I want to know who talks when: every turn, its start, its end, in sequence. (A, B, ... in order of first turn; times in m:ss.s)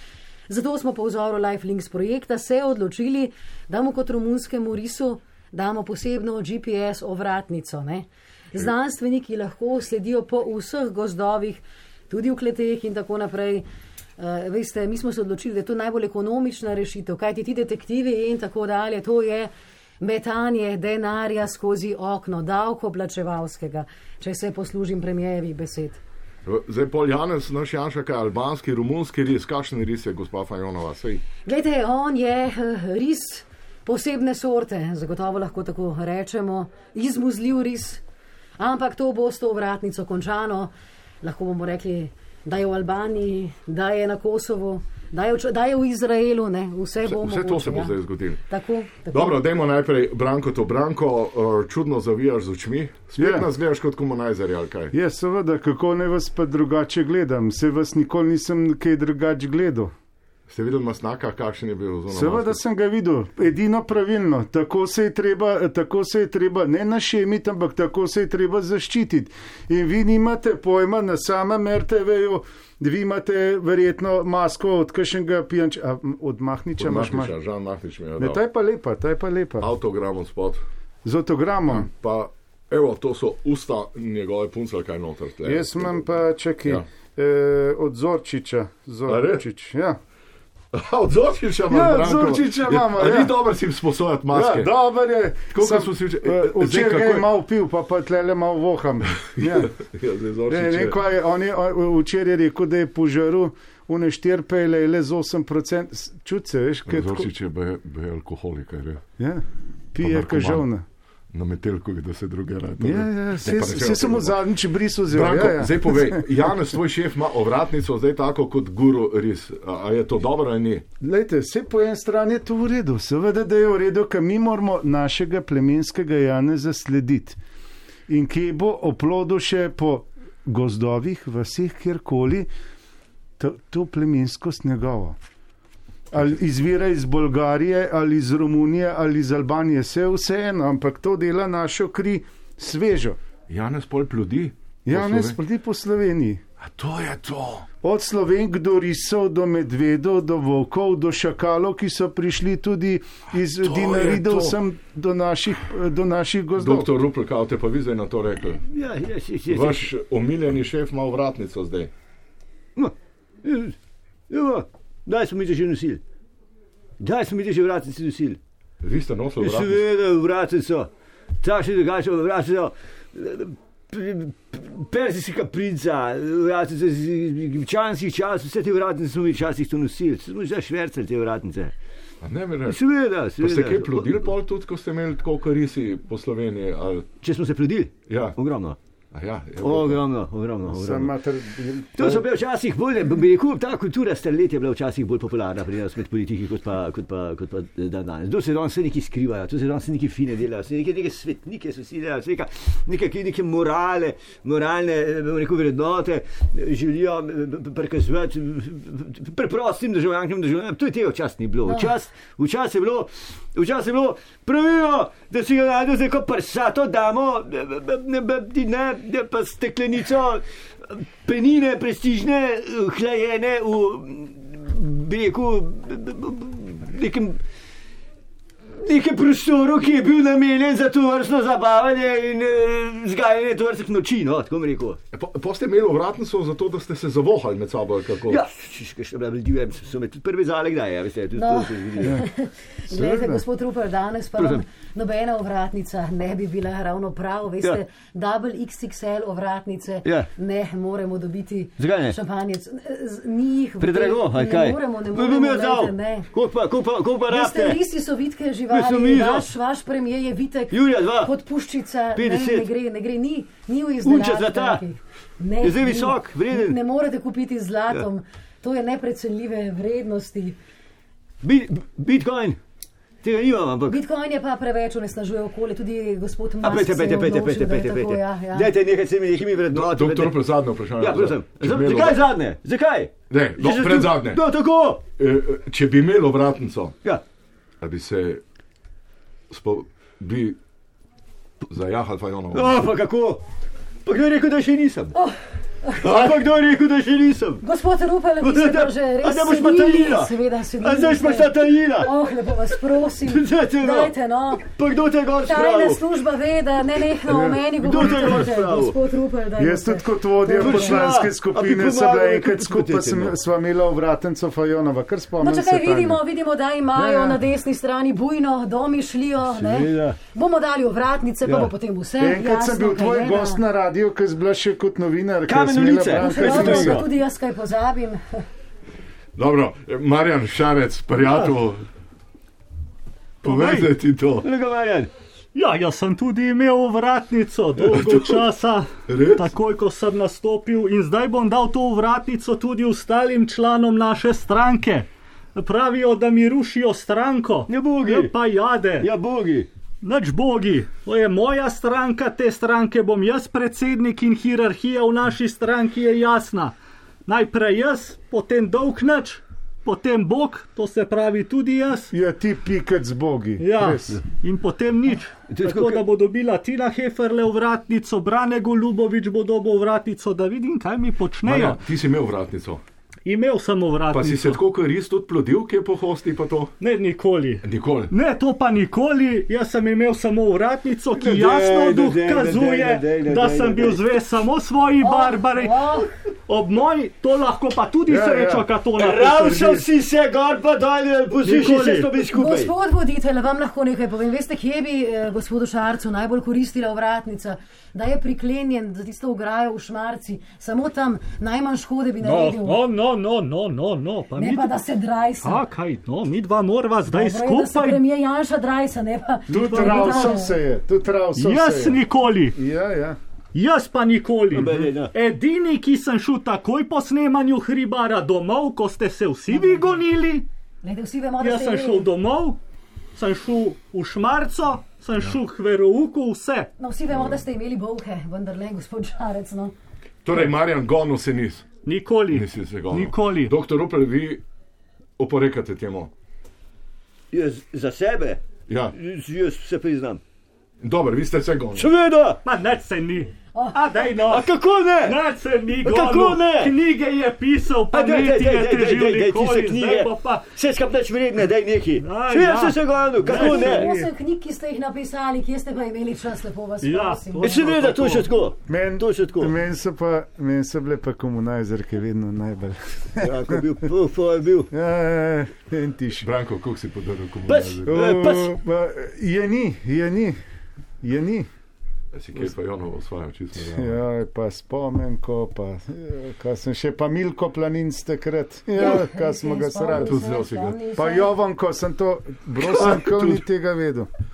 0:00.5-0:13.6 A
0:14.2-0:26.0 A
0:26.4-0:31.2 B
0:31.5-0:38.0 A
0:38.6-0:49.4 A
0:47.0-0:48.4 B
0:49.1-0:54.9 B
0:53.2-0:53.5 C
0:54.9-0:59.9 C
1:00.5-1:02.6 B
1:02.1-1:17.4 C
1:16.8-1:18.4 B
1:18.2-1:19.7 C
1:19.6-1:20.6 B
1:21.0-1:21.9 C
1:21.7-1:26.0 B
1:25.4-1:30.0 C
1:29.1-1:29.4 B
1:30.7-1:34.7 B
1:31.7-1:33.4 C
1:34.3-1:39.7 C
1:35.5-1:37.3 B
1:39.4-1:41.0 B
1:40.5-1:47.3 C
1:46.9-1:49.0 B
1:49.2-1:50.8 C
1:50.0-1:50.6 B
1:51.3-1:54.4 B
1:52.8-1:56.6 C
1:55.1-2:00.8 B
2:01.0-2:07.4 C
2:08.1-2:12.5 C
2:13.4-2:15.2 C
2:16.1-2:23.2 C
2:23.5-2:25.4 B
2:24.8-2:26.4 C
2:26.6-2:27.7 B
2:27.8-2:36.9 C
2:33.6-2:34.6 B
2:36.6-2:38.6 B
2:38.7-2:39.9 D
2:39.5-2:41.9 B
2:42.8-2:43.8 D
2:44.3-2:46.0 D
2:47.0-2:48.4 D
2:48.8-2:49.8 B
2:49.4-2:50.9 D
2:51.4-3:01.7 D
3:02.2-3:02.8 B
3:02.7-3:04.3 D
3:03.4-3:07.1 B
3:07.2-3:08.8 D
3:08.1-3:08.4 B
3:09.1-3:10.0 B
3:09.6-3:11.2 D
3:10.7-3:12.2 C
3:12.0-3:47.4 D
3:31.7-3:31.9 A
3:48.8-3:55.0 D
3:55.1-3:58.4 B
3:58.3-4:02.2 D
4:01.4-4:16.3 A
4:02.9-4:03.4 C
4:04.4-4:04.6 D
4:10.0-4:10.3 D
4:11.8-4:12.2 D
4:13.8-4:17.8 D
4:17.3-4:30.6 A
4:18.7-4:19.5 D
4:20.7-4:21.3 D
4:22.2-4:22.7 D
4:24.0-4:24.8 D
4:25.6-4:26.8 D
4:31.4-4:32.6 D
4:33.2-4:34.0 D
4:33.9-4:38.7 A
4:36.6-4:45.0 D
4:39.7-4:42.3 B
4:43.3-4:44.4 B
4:45.2-4:47.0 B
4:47.8-4:48.4 B
4:49.5-4:50.6 B
4:51.6-4:52.9 B
4:52.5-4:53.4 D
4:54.1-4:55.2 D
4:55.1-4:56.1 A
4:56.0-4:57.6 D
4:57.6-5:04.6 A
4:58.4-5:02.1 D
5:03.3-5:06.0 D
5:05.4-5:11.1 A
5:07.3-5:07.6 C
5:07.8-5:09.0 D
5:09.6-5:16.2 C
5:10.6-5:13.4 D
5:15.4-5:23.6 A
5:17.0-5:17.4 C
5:19.5-5:20.2 D
5:21.4-5:21.7 D
5:22.2-5:27.0 C
5:25.5-5:27.1 D
5:26.2-5:28.4 A
5:29.4-5:31.8 B
5:33.4-5:34.5 B
5:33.4-5:35.1 D
5:35.5-5:49.1 E
5:38.0-5:38.4 B
5:39.1-5:39.5 B
5:47.7-5:48.4 D
5:49.0-5:49.7 D
5:50.0-5:56.8 E
5:57.3-6:02.1 E
6:02.1-6:04.2 C
6:03.6-6:11.8 E
6:05.5-6:06.0 D
6:11.4-6:12.8 B
6:13.3-6:14.6 E
6:14.1-6:16.8 B
6:16.8-6:29.9 E
6:17.6-6:18.1 B
6:21.1-6:24.0 D
6:25.0-6:26.1 A
6:28.1-6:28.7 C
6:29.0-6:32.7 D
6:31.4-6:32.2 E
6:32.3-6:42.8 A
6:42.2-6:44.8 E
6:44.4-6:45.6 A
6:45.4-6:48.0 E
6:47.1-6:50.6 A
6:49.5-6:53.2 C
6:49.5-6:50.4 E
6:51.4-6:52.6 E
6:53.5-7:00.5 E
6:54.5-6:55.1 D
6:59.5-7:00.0 A
7:00.8-7:02.1 A
7:01.4-7:02.6 E
7:03.2-7:06.7 E
7:06.8-7:09.7 A
7:07.1-7:07.4 B
7:10.2-7:11.7 B
7:11.8-7:13.6 E
7:12.3-7:14.4 B
7:15.2-7:16.1 B
7:17.3-7:20.2 D
7:18.7-7:19.0 B
7:20.8-7:21.9 B
7:21.8-7:22.4 D
7:22.4-7:30.5 E
7:23.6-7:24.1 A
7:24.2-7:25.2 D
7:25.8-7:26.8 D
7:27.9-7:33.9 D
7:32.0-7:34.1 E
7:33.2-7:37.6 A
7:36.8-7:38.3 E
7:37.4-7:39.5 D
7:38.7-7:43.6 C
7:43.2-7:44.7 D
7:44.7-7:46.3 C
7:46.2-7:48.0 B
7:47.5-7:48.5 D
7:47.9-7:50.4 C
7:51.0-7:51.5 C
7:52.1-7:54.0 B
7:53.6-8:00.2 C
7:58.8-8:01.3 A
7:59.9-8:00.8 B
8:01.0-8:04.1 C
8:02.6-8:03.4 B